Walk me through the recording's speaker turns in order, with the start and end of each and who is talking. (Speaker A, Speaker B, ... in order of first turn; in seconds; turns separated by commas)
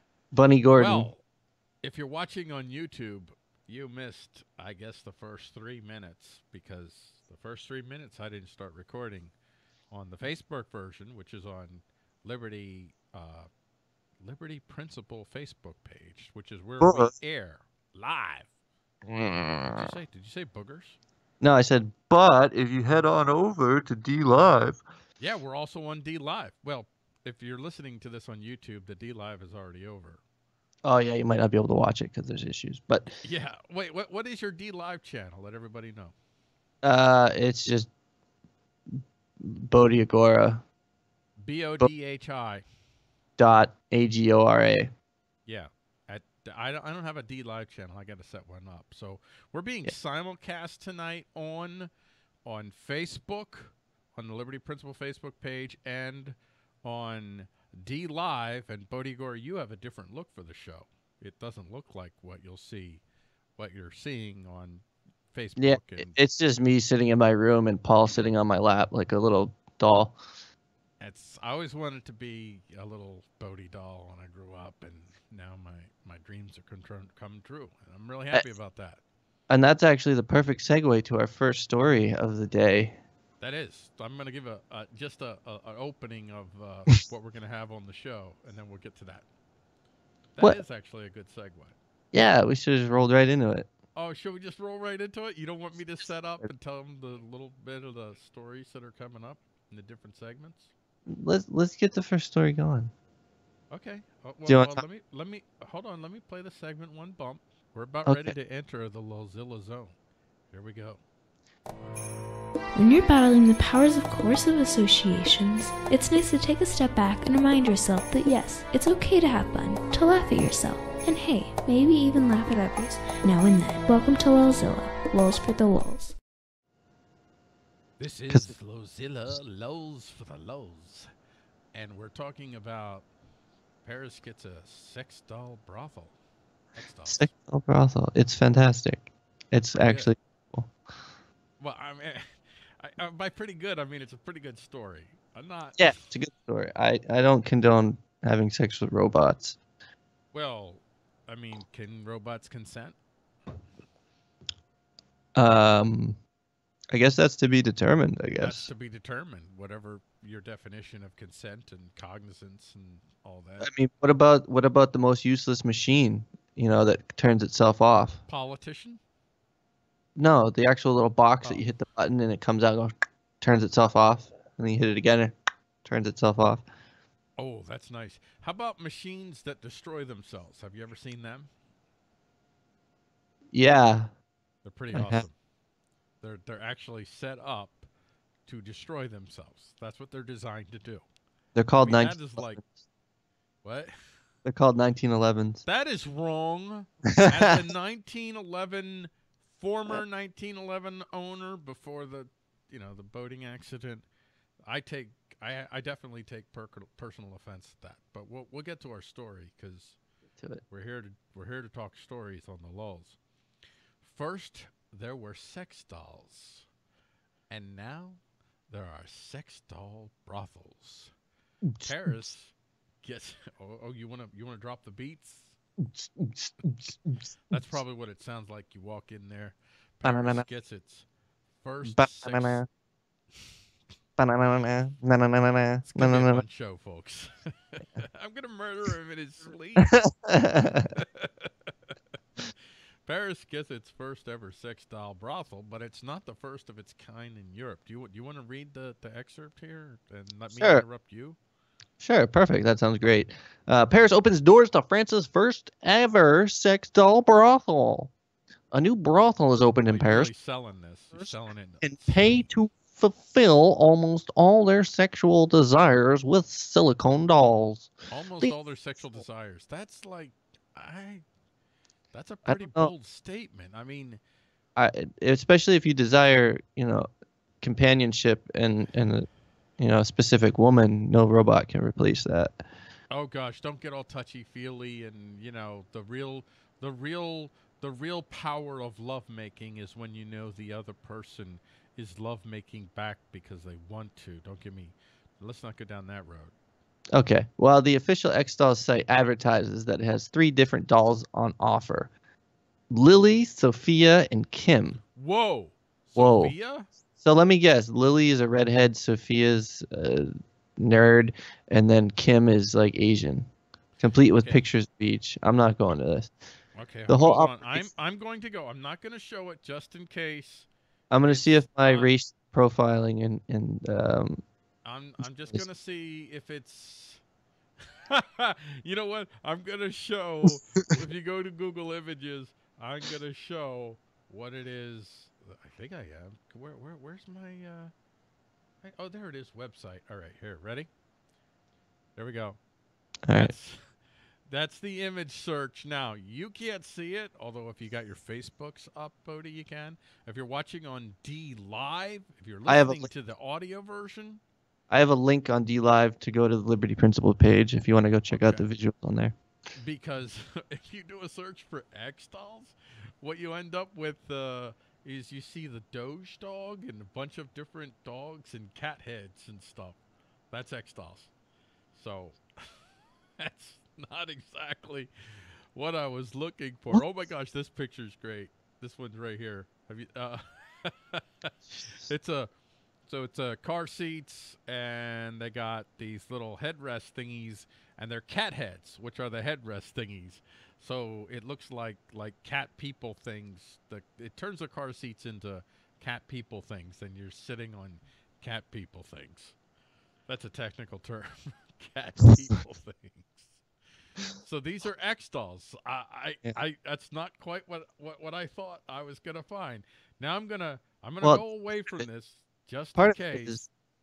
Speaker A: 0.3-1.1, Speaker B: 0.7-1.2, Speaker B: 1.8-9.3, Speaker B: 9.9-13.5, Speaker B: 14.2-18.5, Speaker A: 16.8-17.1, Speaker A: 19.1-19.9, Speaker B: 19.7-21.0, Speaker A: 21.4-24.8, Speaker B: 25.2-30.2, Speaker A: 30.9-33.2, Speaker B: 33.2-36.1, Speaker A: 36.8-37.9, Speaker A: 38.9-40.6, Speaker B: 41.4-42.6, Speaker A: 43.4-44.9, Speaker B: 45.5-51.9, Speaker B: 52.5-63.0, Speaker B: 63.6-66.2, Speaker A: 65.6-70.2, Speaker B: 71.0-79.0, Speaker A: 79.5-83.0, Speaker B: 83.4-89.3, Speaker B: 90.3-91.8, Speaker A: 92.1-93.7, Speaker B: 94.0-100.7, Speaker A: 101.1-102.9, Speaker B: 103.7-110.0, Speaker A: 104.5-104.8, Speaker A: 108.1-108.3, Speaker B: 110.5-111.0, Speaker C: 112.8-126.2, Speaker B: 128.0-131.1, Speaker B: 131.7-133.1, Speaker B: 133.8-136.2, Speaker B: 136.8-137.3, Speaker A: 137.1-140.7, Speaker B: 139.8-140.1, Speaker B: 141.6-146.1, Speaker A: 145.8-149.6, Speaker B: 150.3-153.0, Speaker A: 155.3-156.2, Speaker A: 156.9-158.7, Speaker B: 158.4-163.7, Speaker A: 163.6-168.2, Speaker B: 168.3-169.0, Speaker A: 170.2-176.7, Speaker B: 177.4-181.5, Speaker A: 183.5-184.1, Speaker B: 184.6-185.3, Speaker A: 184.9-185.2, Speaker B: 186.2-187.9, Speaker B: 188.5-191.1, Speaker A: 191.6-192.7, Speaker B: 191.8-192.6, Speaker B: 193.6-193.9, Speaker A: 194.4-195.6, Speaker B: 195.7-204.1, Speaker A: 197.1-197.6, Speaker B: 204.7-210.0, Speaker A: 210.4-210.6, Speaker B: 210.7-213.2, Speaker B: 214.0-216.7, Speaker B: 217.5-221.1, Speaker A: 221.7-222.2, Speaker B: 221.8-225.6, Speaker A: 225.8-227.8, Speaker B: 227.5-231.1, Speaker A: 230.0-230.4, Speaker B: 231.6-232.6, Speaker A: 231.8-232.7, Speaker A: 234.2-236.4, Speaker B: 235.9-239.9, Speaker A: 239.8-240.9, Speaker B: 240.9-241.9, Speaker B: 243.1-251.4, Speaker A: 250.6-250.8, Speaker A: 252.0-258.1, Speaker A: 258.7-260.3, Speaker B: 259.9-262.5, Speaker A: 261.8-267.9, Speaker B: 268.1-271.2, Speaker B: 272.1-274.2, Speaker A: 272.5-272.9, Speaker A: 274.8-277.1, Speaker A: 277.6-279.3, Speaker A: 279.8-282.6, Speaker B: 283.1-296.6, Speaker A: 297.1-302.1, Speaker A: 302.9-305.0, Speaker B: 305.0-306.9, Speaker A: 306.2-306.6, Speaker A: 307.2-313.5, Speaker A: 314.0-316.3, Speaker B: 314.4-314.6, Speaker B: 316.8-320.7, Speaker A: 317.1-317.9, Speaker A: 321.1-324.4, Speaker B: 321.2-322.1, Speaker B: 324.9-327.2, Speaker B: 328.1-337.9, Speaker B: 338.8-340.9, Speaker B: 342.2-342.6, Speaker A: 343.3-343.5, Speaker B: 343.3-354.4, Speaker A: 352.7-353.1, Speaker A: 354.9-359.4, Speaker B: 358.3-358.6, Speaker B: 359.8-370.0, Speaker B: 370.5-371.3, Speaker B: 371.9-372.4, Speaker B: 373.4-375.1, Speaker B: 375.7-382.5, Speaker B: 383.1-399.6, Speaker B: 400.3-403.6, Speaker B: 404.4-413.6, Speaker A: 411.2-412.1, Speaker A: 413.0-413.7